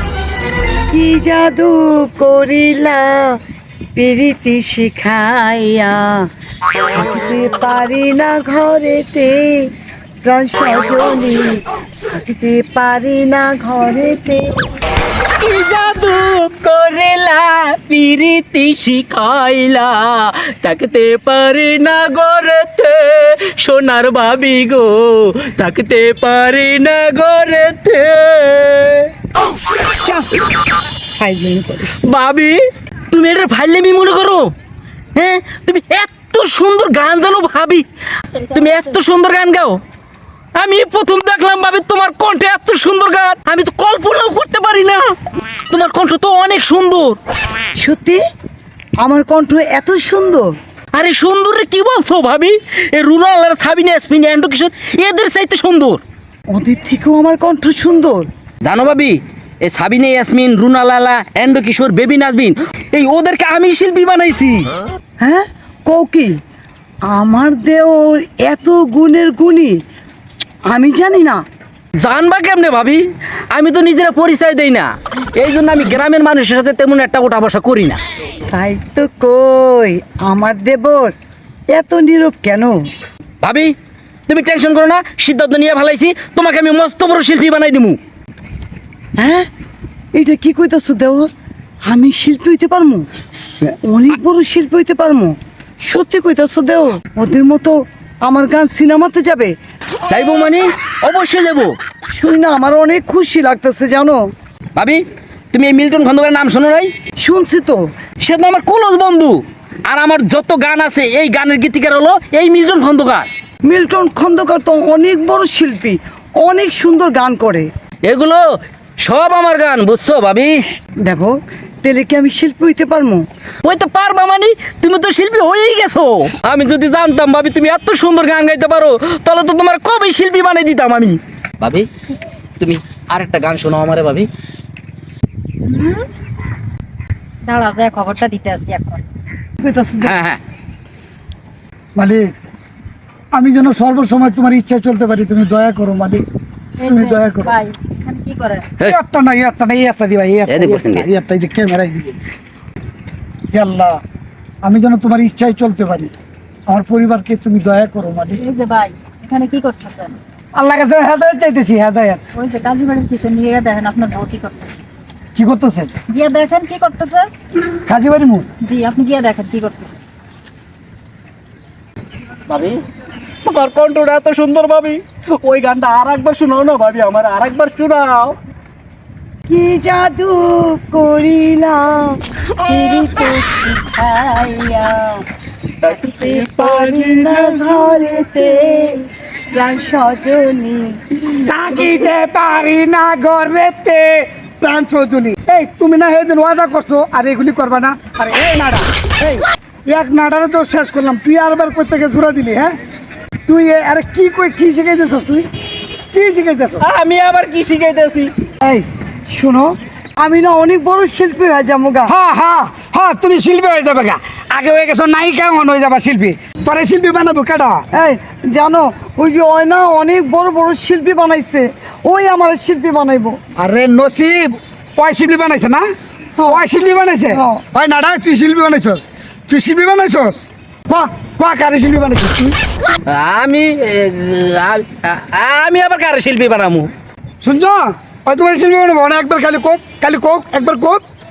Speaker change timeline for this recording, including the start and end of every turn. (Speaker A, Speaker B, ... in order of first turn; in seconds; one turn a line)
Speaker A: 0.9-3.4
Speaker A: 4.0-6.2
Speaker A: 6.9-9.7
Speaker A: 10.2-14.4
Speaker B: 15.2-29.1
Speaker A: 29.9-30.3
Speaker A: 31.1-31.9
Speaker B: 32.0-32.6
Speaker B: 33.1-34.5
Speaker B: 35.1-39.8
Speaker B: 40.6-45.1
Speaker B: 45.7-47.2
Speaker A: 47.8-48.2
Speaker A: 49.0-50.5
Speaker B: 50.9-56.0
Speaker A: 56.5-58.3
Speaker B: 58.6-64.7
Speaker A: 65.2-66.3
Speaker A: 67.1-69.8
Speaker A: 70.7-71.4
Speaker B: 72.0-78.0
Speaker A: 78.5-81.1
Speaker A: 81.7-82.8
Speaker B: 83.4-83.7
Speaker B: 84.3-88.0
Speaker A: 89.2-89.5
Speaker A: 90.1-91.3
Speaker A: 91.9-93.1
Speaker A: 93.8-99.5
Speaker B: 100.0-101.7
Speaker A: 102.1-104.2
Speaker B: 104.8-106.9
Speaker A: 107.2-107.8
Speaker B: 108.2-113.3
Speaker A: 113.6-117.7
Speaker B: 118.0-118.4
Speaker B: 119.0-120.5
Speaker A: 121.0-123.2
Speaker B: 123.6-131.9
Speaker B: 132.6-134.3
Speaker C: 135.6-136.1
Speaker C: 137.4-139.0
Speaker A: 139.6-140.2
Speaker B: 140.0-140.4
Speaker D: 141.9-142.3
Speaker D: 143.3-146.2
Speaker C: 146.8-148.7
Speaker D: 146.8-147.5
Speaker D: 148.8-152.2
Speaker B: 150.5-151.1
Speaker D: 153.5-154.0
Speaker D: 154.6-156.1
Speaker D: 156.7-158.4
Speaker C: 158.4-160.2
Speaker D: 160.5-162.2
Speaker C: 162.3-164.8
Speaker D: 165.3-165.9
Speaker C: 166.1-167.3
Speaker D: 167.8-168.5
Speaker C: 168.6-170.0
Speaker B: 172.5-172.8
Speaker B: 173.4-178.4
Speaker A: 179.5-185.2
Speaker B: 185.8-187.8
Speaker A: 185.8-189.0
Speaker A: 189.5-191.0
Speaker D: 191.3-202.7
Speaker D: 203.5-205.5
Speaker D: 206.1-206.9
Speaker B: 206.8-208.3
Speaker A: 208.6-212.1
Speaker D: 212.1-217.8
Speaker A: 217.9-223.4
Speaker D: 223.6-225.9
Speaker A: 226.4-226.6
Speaker D: 226.4-232.6
Speaker A: 227.3-227.6
Speaker B: 233.1-236.9
Speaker D: 237.4-241.0